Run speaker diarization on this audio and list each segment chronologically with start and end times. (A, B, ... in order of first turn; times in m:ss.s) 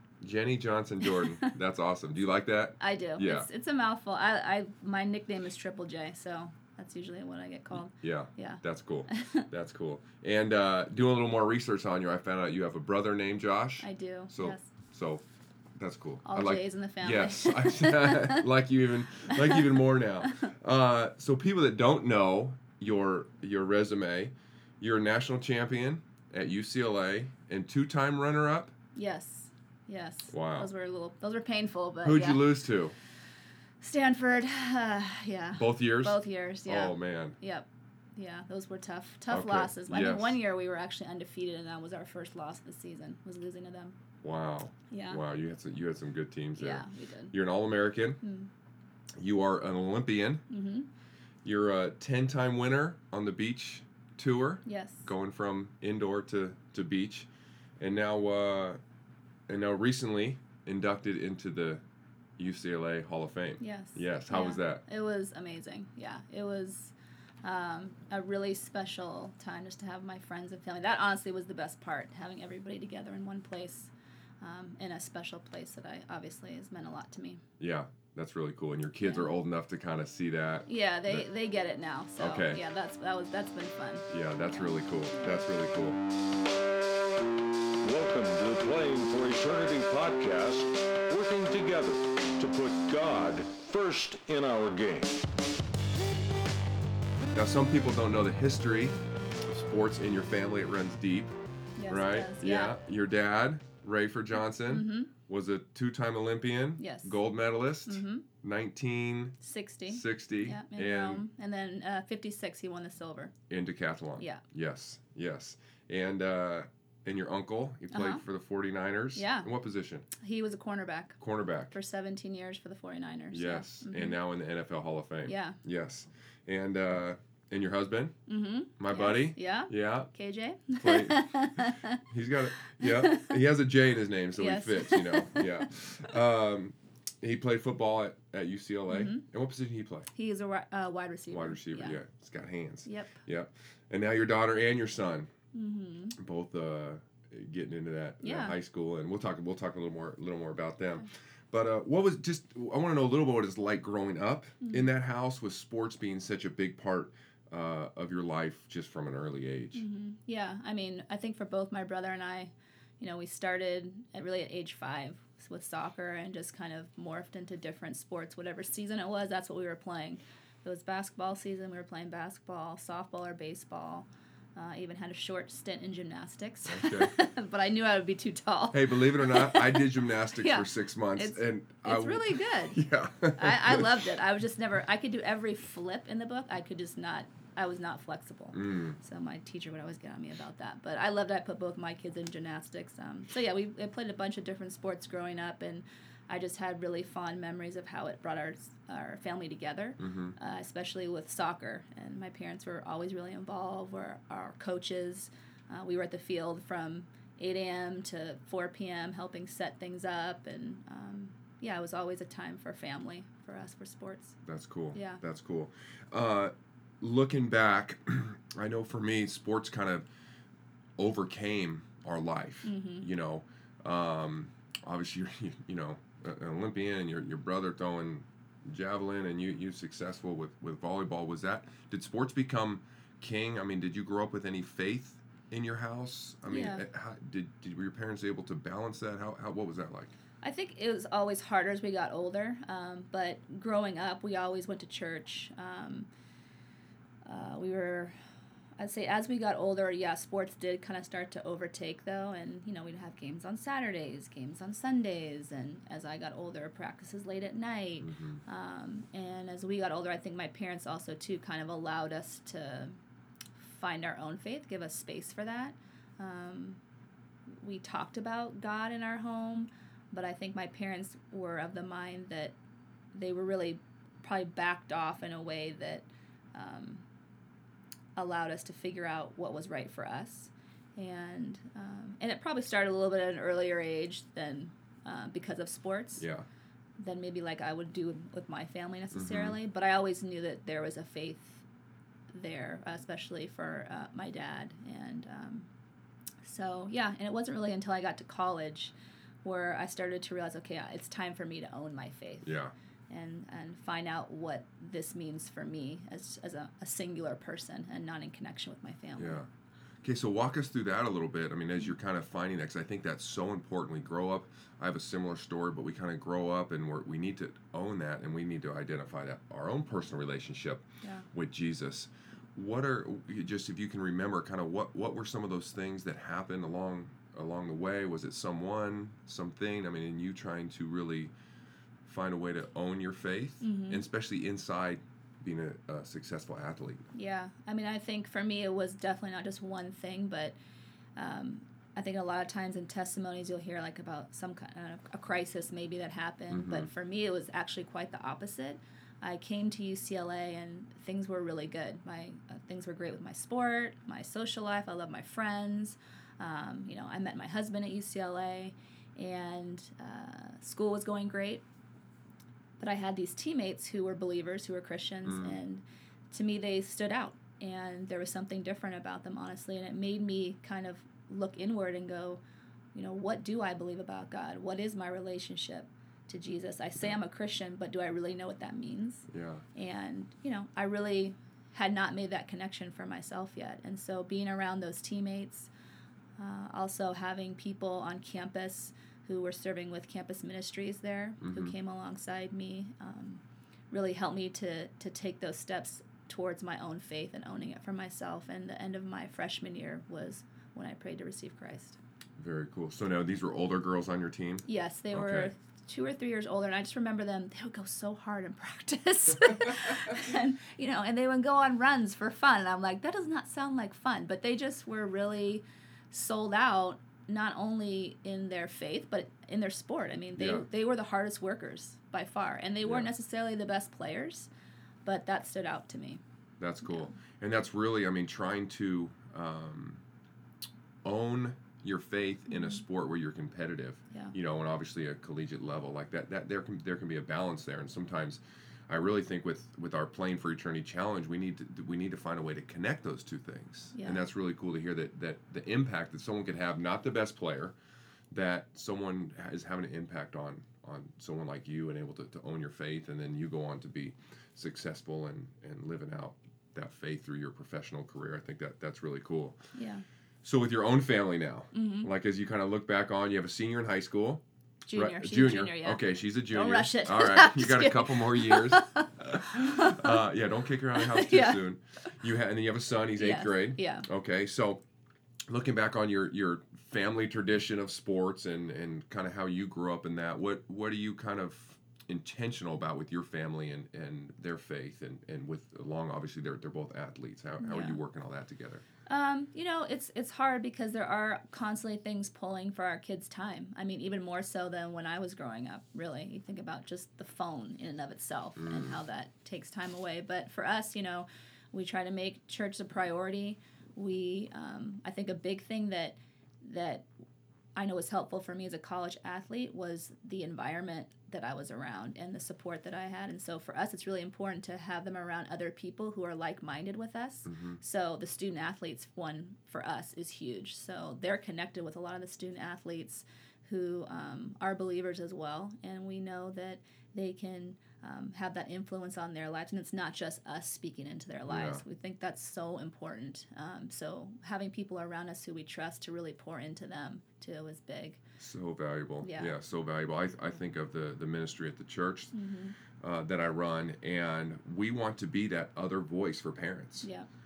0:00.2-0:03.5 A
0:01.0-0:01.5 B
0:02.8-0:09.4 B
0:07.9-0:15.2 A
0:13.8-0:14.7 B
0:15.8-0:28.7 A
0:16.2-0:18.5 B
0:19.3-0:20.5 B
0:28.9-0:32.5 B
0:30.3-0:30.7 A
0:32.0-0:32.9 A
0:33.8-0:44.0 B
0:35.5-0:37.4 A
0:39.3-0:40.4 A
0:44.2-0:48.2 A
0:44.9-0:45.2 B
0:46.6-0:47.3 B
0:48.2-0:48.5 B
0:49.2-0:50.4 A
0:50.5-0:50.9 B
0:51.4-0:57.3 A
0:54.6-0:55.1 B
0:57.8-0:58.8 A
0:59.5-1:01.8 A
1:02.4-1:04.8 A
1:03.6-1:17.4 B
1:17.6-1:21.3 A
1:19.0-1:19.3 B
1:20.7-1:25.4 B
1:22.2-1:22.6 A
1:24.1-1:26.0 A
1:27.8-1:35.2 C
1:37.3-1:41.3 A
1:41.8-1:42.8 B
1:41.9-1:49.4 A
1:44.7-1:45.1 B
1:46.8-1:47.2 B
1:47.9-1:48.2 B
1:49.4-1:53.3 B
1:49.9-1:51.2 A
1:53.5-2:00.1 A
1:57.9-1:58.2 B
1:59.2-1:59.5 B
2:00.2-2:01.2 B
2:01.2-2:01.7 A
2:01.7-2:04.2 B
2:03.3-2:08.2 A
2:05.2-2:05.6 B
2:08.3-2:12.0 B
2:08.8-2:10.1 A
2:10.8-2:11.4 A
2:12.0-2:20.1 A
2:12.8-2:13.3 B
2:14.4-2:15.7 B
2:18.9-2:19.2 B
2:20.1-2:22.0 B
2:21.3-2:25.3 A
2:22.8-2:23.2 B
2:25.5-2:26.2 B
2:26.2-2:39.8 A
2:28.2-2:28.6 B
2:34.6-2:34.9 B
2:39.7-3:02.8 B
2:56.7-2:57.1 A
2:58.7-3:04.0 A
3:03.4-3:34.4 B
3:08.5-3:09.0 A
3:20.0-3:20.4 A
3:34.4-3:40.1 A
3:34.9-3:35.2 B
3:41.0-4:00.1 A
3:42.6-3:43.1 B
3:56.5-3:56.8 B
4:00.4-4:06.1 B
4:07.2-4:08.2 B
4:08.8-4:22.9 B
4:18.0-4:18.4 A
4:23.6-4:26.8 B
4:27.5-4:32.6 B
4:33.1-4:37.0 B
4:38.1-4:46.2 B
4:46.2-4:46.4 A
4:47.0-4:51.6 B
4:49.1-4:49.6 A
4:52.3-4:55.7 B
4:56.4-5:02.6 B
5:02.4-5:02.7 A
5:03.1-5:09.4 B
5:09.2-5:09.5 A
5:10.0-5:31.3 A
5:32.0-5:37.0 A
5:33.6-5:34.0 B
5:37.1-5:40.6 B
5:41.2-6:01.6 B
5:46.5-5:46.9 A
6:02.8-6:12.4 B
6:05.2-6:05.6 A
6:12.9-6:25.7 B
6:19.3-6:19.6 A
6:26.4-6:42.0 B
6:31.4-6:31.7 A
6:42.4-6:45.5 A
6:44.6-7:04.5 B
7:00.3-7:00.7 A
7:02.8-7:03.1 A
7:05.0-7:06.2 B
7:06.6-7:10.0 A
7:06.8-7:07.1 B
7:11.0-7:27.8 A
7:12.5-7:12.8 B
7:23.9-7:24.2 B
7:28.3-7:39.6 A
7:39.7-7:40.0 B
7:40.4-7:44.4 A
7:41.7-7:42.1 B
7:44.9-7:50.2 B
7:44.9-7:54.8 A
7:50.9-7:51.6 B
7:53.2-7:54.0 B
7:55.5-8:08.8 A
8:07.6-8:08.0 B
8:09.1-8:27.0 B
8:18.6-8:19.0 A
8:27.7-8:58.2 B
8:37.4-8:37.8 A
8:51.5-8:51.8 A
8:58.4-9:02.3 A
8:59.2-8:59.5 B
9:02.3-9:02.8 B
9:03.0-9:07.1 A